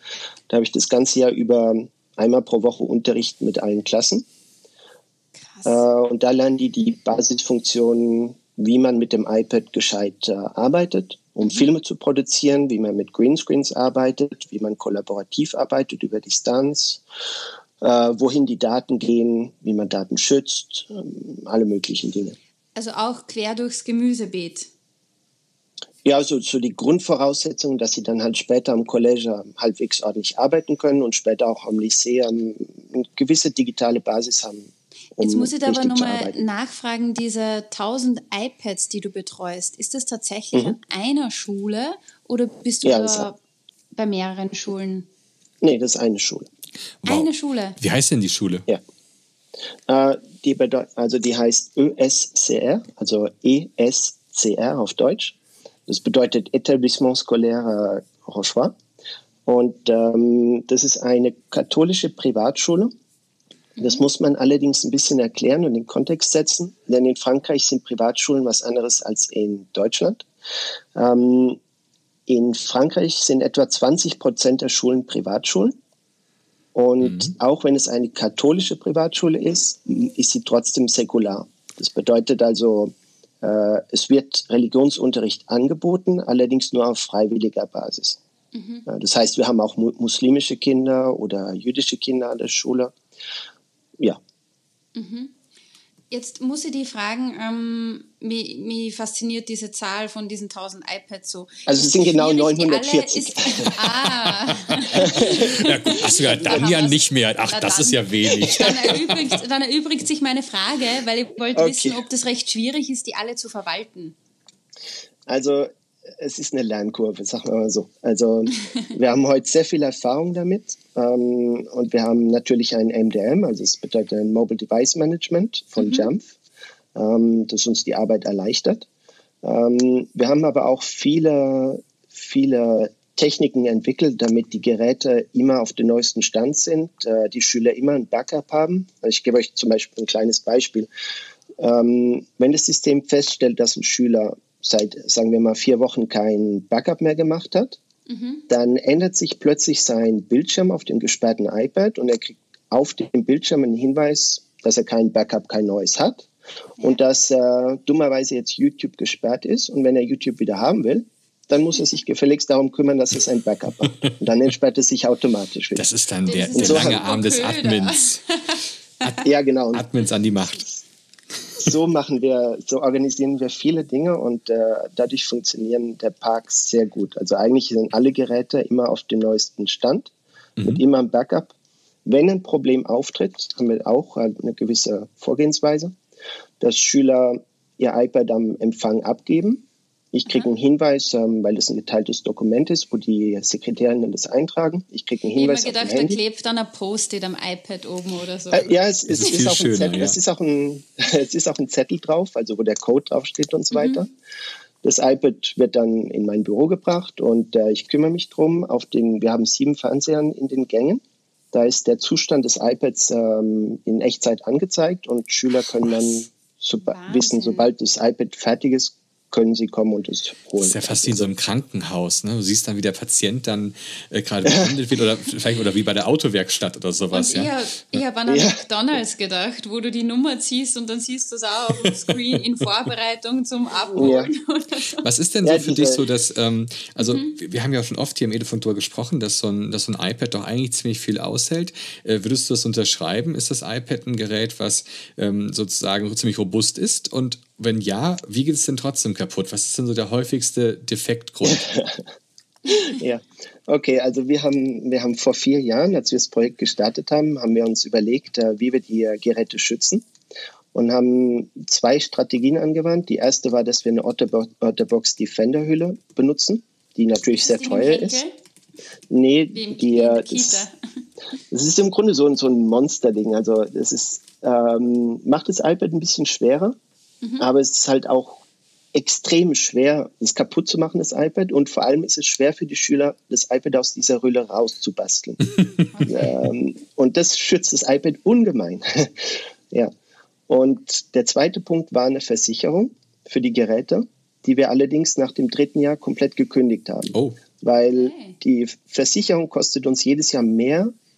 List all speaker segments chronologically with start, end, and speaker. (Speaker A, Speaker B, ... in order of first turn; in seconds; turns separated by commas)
Speaker A: 0.5-4.3, Speaker B: 5.5-5.8, Speaker A: 5.7-17.0, Speaker A: 17.8-22.4, Speaker B: 22.8-24.7, Speaker A: 26.1-36.5, Speaker B: 35.2-43.4, Speaker A: 42.8-43.3, Speaker B: 44.0-45.1, Speaker A: 45.6-46.5, Speaker C: 47.0-48.7, Speaker B: 47.1-47.8, Speaker A: 49.9-55.4, Speaker A: 55.9-58.7, Speaker A: 59.5-62.9, Speaker A: 63.8-70.2, Speaker A: 71.0-71.6, Speaker A: 72.3-75.8, Speaker A: 76.8-88.2, Speaker C: 77.0-77.3, Speaker B: 88.5-88.9, Speaker A: 88.9-92.9, Speaker B: 95.0-95.3, Speaker B: 96.1-114.1, Speaker A: 101.7-103.8, Speaker C: 104.1-109.3, Speaker A: 104.9-105.4, Speaker A: 111.5-112.0, Speaker A: 115.3-126.3, Speaker B: 125.8-126.1, Speaker A: 127.0-128.9, Speaker A: 129.4-140.9, Speaker A: 141.6-147.8, Speaker B: 148.1-148.4, Speaker A: 148.5-165.9, Speaker C: 165.8-168.2, Speaker B: 166.3-169.2, Speaker A: 166.5-167.1, Speaker C: 169.0-170.7, Speaker A: 169.2-169.8, Speaker A: 171.6-181.5, Speaker A: 182.1-185.9, Speaker A: 186.6-196.2, Speaker B: 195.4-198.7, Speaker A: 198.5-204.1, Speaker C: 199.1-200.2, Speaker B: 203.7-204.0, Speaker A: 204.8-211.0, Speaker A: 211.5-221.3, Speaker B: 216.8-217.7, Speaker C: 220.6-228.0, Speaker A: 224.4-224.7, Speaker B: 227.1-235.1, Speaker A: 228.3-228.6, Speaker C: 231.7-232.1, Speaker A: 233.9-234.3, Speaker C: 235.0-251.7, Speaker A: 235.4-236.0, Speaker B: 237.0-237.3, Speaker A: 251.4-252.0, Speaker A: 252.7-260.1, Speaker A: 260.7-268.2, Speaker B: 267.3-268.3, Speaker A: 269.1-270.6, Speaker B: 269.5-270.8, Speaker A: 271.5-276.8, Speaker B: 277.2-277.5, Speaker A: 277.4-278.4, Speaker A: 278.9-285.4, Speaker B: 285.9-286.4, Speaker A: 286.1-289.9, Speaker A: 290.5-300.9, Speaker C: 297.1-297.4, Speaker B: 297.9-298.4